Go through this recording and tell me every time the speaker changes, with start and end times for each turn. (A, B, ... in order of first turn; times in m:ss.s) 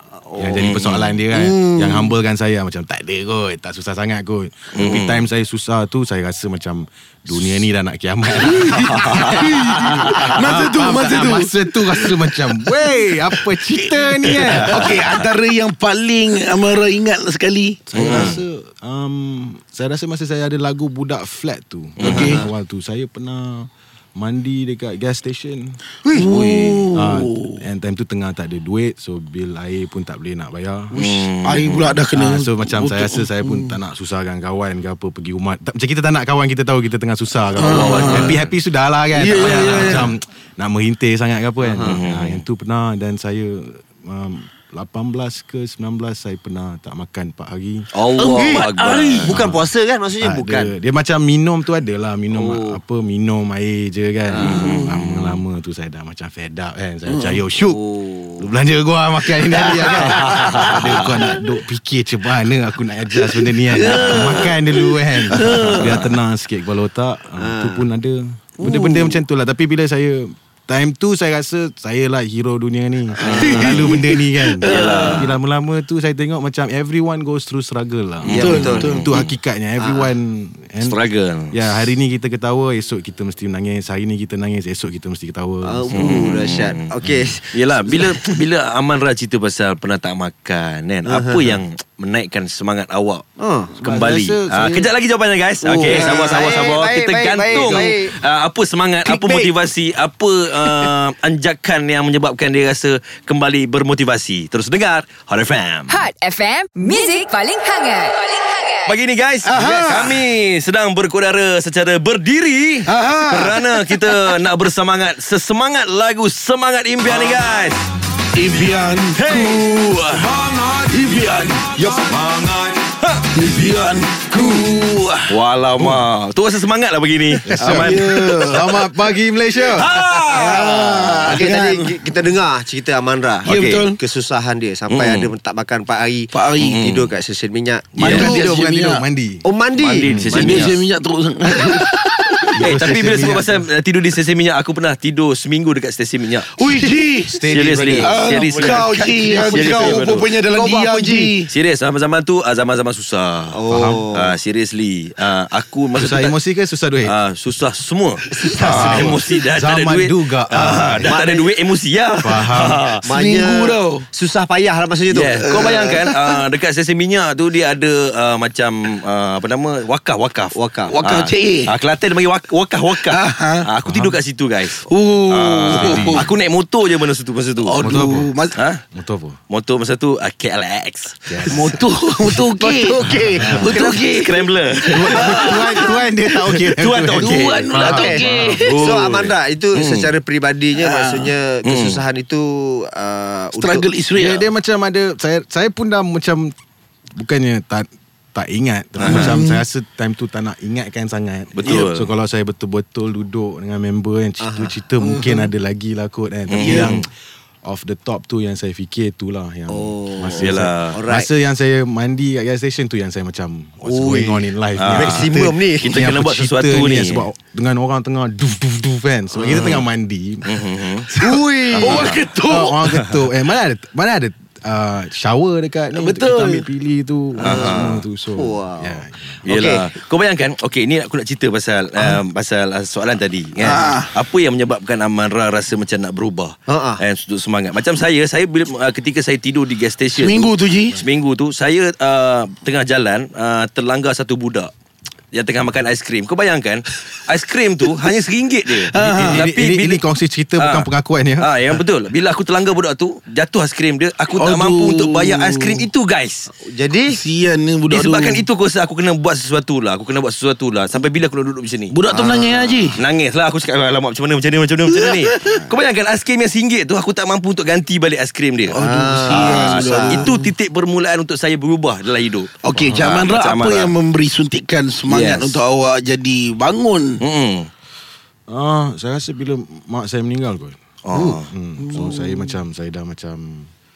0:00.1-0:00.6 A
0:00.4-0:15.0 B
0:00.6-0:01.2 C
0:01.5-0:01.8 D
0:04.7-0:05.3 C
0:08.4-0:18.4 D
0:08.9-0:10.3 C
0:14.6-0:15.0 C
0:17.9-0:25.8 B
0:17.9-0:18.4 C
0:22.0-0:22.4 C
0:22.0-0:22.4 D
0:22.1-0:22.5 A
0:26.1-0:27.6 D
0:26.4-0:26.8 C
0:26.9-0:31.0 B
0:31.0-0:32.0 C
0:31.0-0:31.3 A
0:31.4-0:33.8 D
0:32.1-0:47.9 B
0:37.6-0:38.4 D
0:37.6-0:38.5 C
0:39.1-0:40.1 D
0:39.4-0:39.8 C
0:41.6-0:42.0 A
0:41.9-0:42.4 C
0:47.9-0:49.4 C
0:48.2-0:49.3 D
0:48.2-0:48.7 A
0:49.2-0:50.7 A
0:49.3-0:57.8 B
0:52.3-0:52.8 A
0:54.3-0:54.7 A
0:54.4-0:55.4 C
0:54.5-0:54.9 D
0:57.1-0:57.4 D
0:57.7-0:58.5 A
0:58.4-1:21.0 B
0:59.6-1:00.8 A
1:00.4-1:00.7 C
1:03.7-1:06.0 D
1:04.1-1:04.4 C
1:05.5-1:06.0 C
1:07.4-1:07.9 A
1:08.6-1:09.2 D
1:13.2-1:13.9 A
1:13.2-1:13.8 C
1:13.4-1:15.3 D
1:14.7-1:15.4 C
1:18.2-1:19.3 C
1:18.3-1:18.9 A
1:18.3-1:19.1 D
1:19.8-1:20.1 A
1:20.8-1:21.9 C
1:21.5-1:26.3 B
1:25.6-1:28.3 A
1:25.9-1:26.9 C
1:27.5-1:33.2 C
1:31.1-1:31.6 A
1:33.4-1:33.8 A
1:33.8-1:34.9 B
1:33.8-1:46.0 C
1:35.6-1:38.2 A
1:35.9-1:36.4 B
1:37.5-1:37.8 B
1:39.0-1:39.5 A
1:45.9-1:48.9 E
1:48.9-1:57.8 C
1:49.4-1:50.3 D
1:52.9-1:54.3 D
1:58.3-1:59.7 D
1:59.2-2:00.4 C
2:00.4-2:02.3 D
2:02.6-2:03.2 C
2:03.3-2:05.4 D
2:05.3-2:08.1 C
2:07.4-2:08.9 D
2:07.5-2:10.0 B
2:09.7-2:10.6 C
2:10.3-2:12.0 D
2:10.3-2:18.3 A
2:13.4-2:13.8 C
2:13.5-2:14.0 D
2:14.9-2:15.3 C
2:16.3-2:16.8 D
2:16.6-2:17.1 C
2:18.0-2:19.0 D
2:18.0-2:18.3 C
2:18.0-2:19.4 B
2:19.4-2:20.7 A
2:19.8-2:20.8 C
2:20.0-2:20.7 B
2:20.3-2:22.4 D
2:22.6-2:23.6 B
2:22.6-2:26.5 C
2:26.5-2:27.5 D
2:27.3-2:28.3 B
2:27.5-2:30.3 C
2:28.0-2:31.5 D
2:29.2-2:30.0 A
2:30.5-2:31.3 A
2:31.5-2:36.4 C
2:33.5-2:34.3 A
2:33.7-2:34.1 B
2:36.0-2:37.2 B
2:37.0-2:43.0 C
2:38.4-2:39.1 D
2:38.5-2:41.1 B
2:40.5-2:41.6 A
2:42.2-2:42.8 B
2:43.0-2:44.0 D
2:43.0-2:46.0 A
2:45.1-2:58.0 C
2:45.4-2:46.4 D
2:50.6-2:51.0 A
2:50.9-2:51.8 D
2:52.9-2:53.7 D
2:53.9-2:54.2 B
2:54.7-2:56.3 D
2:55.7-2:56.3 B
2:57.6-2:58.6 D
2:57.8-2:58.3 B
2:58.6-2:58.8 C
2:58.9-2:59.4 B
2:59.5-3:01.8 C
3:01.3-3:01.8 B
3:01.5-3:06.0 D
3:02.6-3:04.0 A
3:03.4-3:03.9 B
3:03.6-3:05.8 C
3:04.9-3:08.6 B
3:06.6-3:10.2 C
3:07.1-3:08.8 D
3:07.8-3:13.9 A
3:10.7-3:11.4 D
3:11.6-3:12.0 C
3:13.5-3:14.5 D
3:14.2-3:16.5 B
3:17.2-3:27.1 B
3:19.0-3:19.4 C
3:19.0-3:19.6 D
3:21.5-3:22.1 C
3:24.4-3:24.8 A
3:25.0-3:25.4 D
3:26.5-3:27.1 C
3:26.6-3:26.9 D
3:27.6-3:40.6 B
3:29.7-3:31.3 A
3:30.4-3:31.0 C
3:33.8-3:35.9 A
3:34.8-3:37.3 C
3:39.4-3:39.8 C
3:39.4-3:39.7 A
3:40.4-3:41.1 C
3:41.1-3:42.8 D
3:41.2-3:42.1 A
3:41.8-3:42.2 C
3:41.8-3:49.5 B
3:45.9-3:46.7 D
3:47.4-3:49.8 A
3:47.4-3:48.0 C
3:49.4-4:04.7 C
3:53.6-3:54.2 D
3:56.7-3:57.0 A
4:00.1-4:01.0 D
4:05.3-4:10.0 C
4:08.7-4:09.4 D
4:09.1-4:11.5 B
4:10.6-4:16.5 C
4:14.3-4:15.9 D
4:16.6-4:17.2 A
4:17.1-4:18.4 D
4:17.9-4:22.1 C
4:21.9-4:23.0 D
4:22.8-4:33.9 C
4:25.0-4:25.6 D
4:25.4-4:25.7 A
4:28.7-4:30.4 D
4:28.8-4:30.3 A
4:32.6-4:37.2 D
4:35.1-4:35.6 C
4:37.2-4:37.7 C
4:38.5-4:43.7 B
4:41.0-4:41.5 C
4:41.1-4:41.4 A
4:41.8-4:42.6 D